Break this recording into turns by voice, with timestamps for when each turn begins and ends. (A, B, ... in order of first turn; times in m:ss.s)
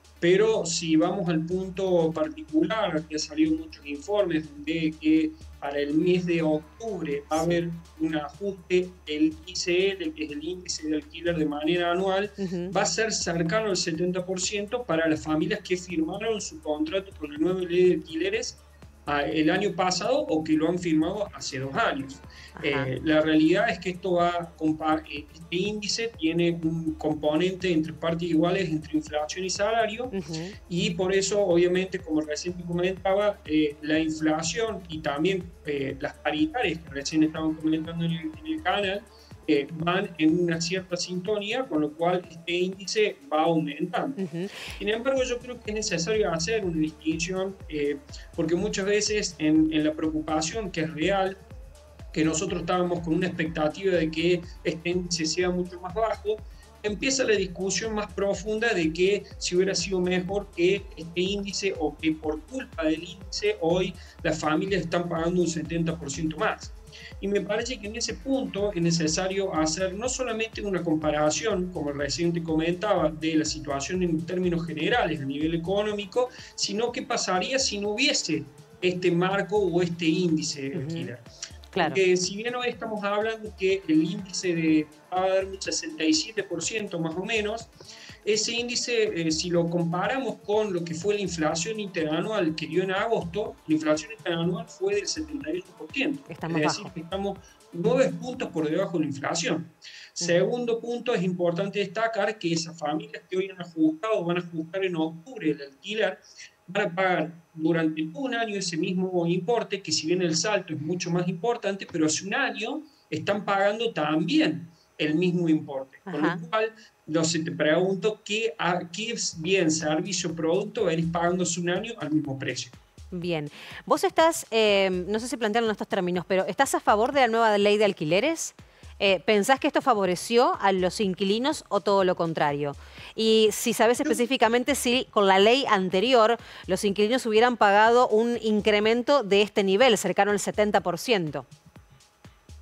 0:00.2-0:30.1 A
0:07.3-0:07.6 B
0:12.4-0:12.7 B
0:22.6-0:22.9 B
0:30.1-0:30.5 B
0:30.7-0:44.2 A
0:44.2-0:44.6 B
0:44.7-0:51.4 A
0:52.1-1:21.2 A
1:20.7-1:21.1 B
1:21.7-1:22.0 B
1:21.8-2:02.7 A
1:36.3-1:36.9 B
1:56.1-1:56.4 B
2:03.1-2:21.4 B